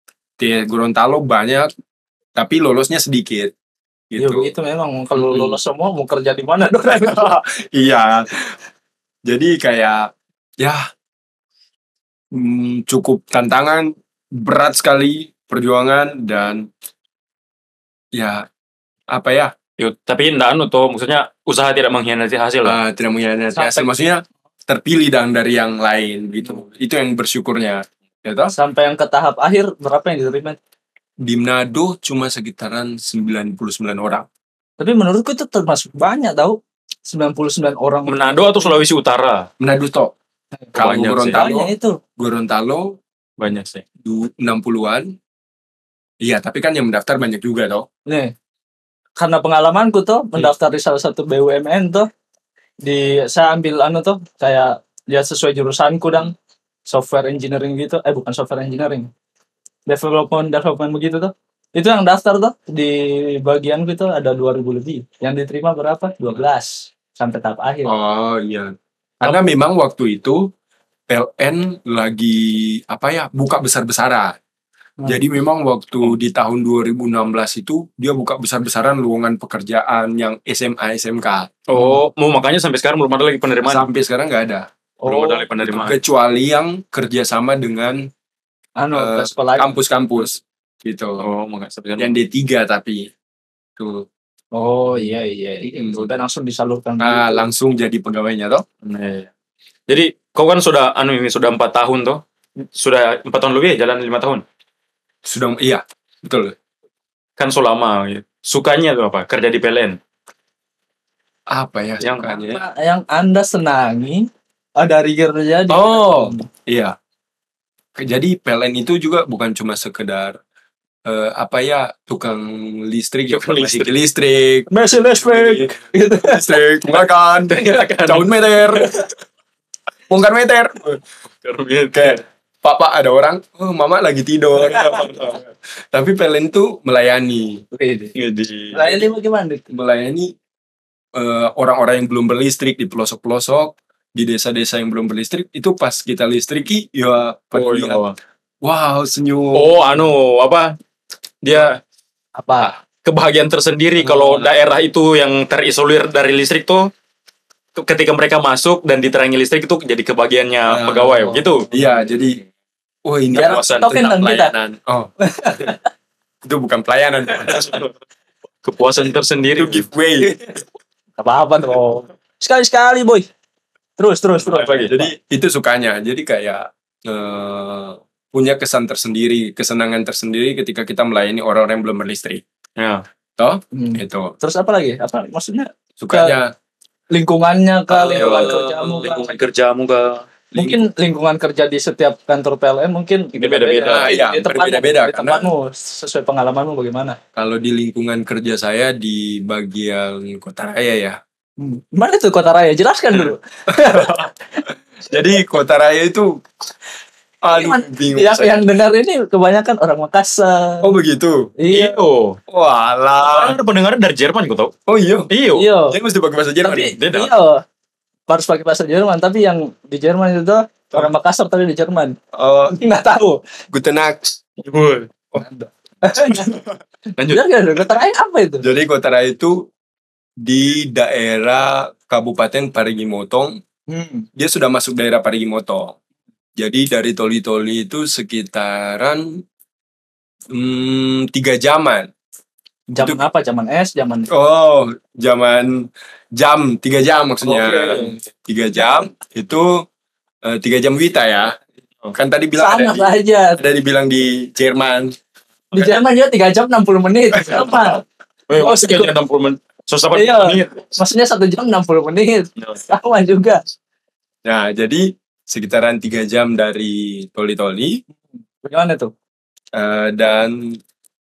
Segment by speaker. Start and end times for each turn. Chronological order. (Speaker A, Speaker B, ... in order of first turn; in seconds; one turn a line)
Speaker A: 0.4-1.7
Speaker A: 2.4-3.5
Speaker A: 4.1-4.5
Speaker B: 4.2-7.3
Speaker A: 6.8-8.6
Speaker A: 9.2-10.8
Speaker A: 12.3-16.7
Speaker A: 18.1-18.5
Speaker A: 19.1-19.5
Speaker C: 19.8-22.8
Speaker A: 22.6-28.5
Speaker B: 23.5-23.9
Speaker B: 28.5-30.6
Speaker A: 31.2-34.3
Speaker B: 34.8-38.8
Speaker C: 38.1-39.5
Speaker A: 39.6-40.1
Speaker A: 40.7-43.0
Speaker C: 40.8-41.5
Speaker B: 41.2-42.0
Speaker C: 43.4-43.8
Speaker A: 44.0-45.1
Speaker A: 46.2-47.9
Speaker B: 48.1-48.3
Speaker B: 49.2-52.1
Speaker B: 52.8-56.3
Speaker B: 56.9-59.1
Speaker B: 59.9-67.9
Speaker A: 67.8-70.5
Speaker A: 71.1-74.3
Speaker A: 75.0-81.5
Speaker C: 81.7-83.8
Speaker B: 81.7-82.0
Speaker A: 83.6-84.7
Speaker B: 85.0-85.5
Speaker C: 85.0-86.0
Speaker A: 85.6-88.1
Speaker B: 88.8-89.8
Speaker A: 88.9-91.2
Speaker C: 91.2-92.2
Speaker A: 92.0-93.1
Speaker A: 93.8-94.1
Speaker B: 94.5-97.4
Speaker A: 95.8-96.1
Speaker A: 97.0-98.6
Speaker C: 98.8-99.3
Speaker C: 99.9-102.2
Speaker C: 102.7-104.4
Speaker A: 105.2-106.5
Speaker C: 107.4-110.0
Speaker A: 111.5-112.6
Speaker C: 112.0-112.4
Speaker B: 112.4-116.5
Speaker A: 115.7-116.9
Speaker A: 118.0-120.4
Speaker A: 121.0-128.9
Speaker C: 123.3-124.0
Speaker B: 124.7-126.6
Speaker C: 127.5-128.9
Speaker A: 130.1-131.0
Speaker C: 131.4-132.2
Speaker A: 131.9-137.6
Speaker C: 134.8-135.2
Speaker B: 137.7-138.1
Speaker C: 138.2-139.0
Speaker B: 138.7-139.6
Speaker A: 139.7-140.3
Speaker A: 141.1-148.0
Speaker C: 147.5-148.1
Speaker A: 148.6-149.9
Speaker C: 149.5-150.8
Speaker C: 151.4-151.8
Speaker B: 152.4-152.7
Speaker C: 152.6-156.9
Speaker A: 154.1-154.5
Speaker C: 157.8-161.7
Speaker A: 160.7-162.4
Speaker B: 161.3-162.0
Speaker A: 163.0-165.1
Speaker B: 163.3-164.5
Speaker C: 163.3-163.9
Speaker B: 165.2-165.8
Speaker A: 166.4-167.8
Speaker C: 167.5-167.9
Speaker C: 168.6-169.8
Speaker A: 169.6-170.4
Speaker B: 171.2-173.3
Speaker B: 174.0-175.1
Speaker A: 174.5-182.4
Speaker C: 182.8-183.0
Speaker A: 183.4-184.3
Speaker B: 183.7-186.4
Speaker A: 186.0-186.5
Speaker B: 187.1-189.3
Speaker C: 187.9-190.2
Speaker A: 188.1-189.0
Speaker A: 190.5-190.8
Speaker B: 190.6-197.2
Speaker C: 193.3-194.1
Speaker A: 193.8-195.5
Speaker A: 197.3-201.2
Speaker B: 201.6-204.3
Speaker A: 203.7-206.4
Speaker A: 207.4-208.6
Speaker B: 207.5-210.9
Speaker A: 210.8-211.5
Speaker B: 211.6-212.0
Speaker C: 211.7-212.4
Speaker A: 212.5-213.6
Speaker C: 213.2-214.7
Speaker A: 214.9-217.0
Speaker C: 215.3-215.7
Speaker B: 215.5-216.0
Speaker B: 216.6-217.6
Speaker C: 217.0-217.3
Speaker B: 218.3-222.2
Speaker A: 222.3-222.8
Speaker B: 222.7-223.4
Speaker A: 223.7-224.3
Speaker C: 224.6-225.1
Speaker B: 225.4-226.6
Speaker C: 227.2-227.5
Speaker B: 227.3-228.6
Speaker A: 228.6-229.7
Speaker A: 230.4-233.6
Speaker B: 233.9-234.3
Speaker A: 234.3-235.9
Speaker A: 236.6-239.4
Speaker A: 240.5-242.1
Speaker B: 242.9-244.3
Speaker A: 243.0-243.2
Speaker A: 244.3-249.8
Speaker B: 247.4-248.2
Speaker A: 250.4-251.6
Speaker A: 252.1-255.1
Speaker B: 252.6-253.6
Speaker B: 255.7-258.0
Speaker A: 257.4-257.9
Speaker C: 258.5-260.7
Speaker B: 258.5-259.1
Speaker B: 260.1-263.6
Speaker A: 264.4-268.0
Speaker B: 268.6-269.1
Speaker A: 269.7-270.8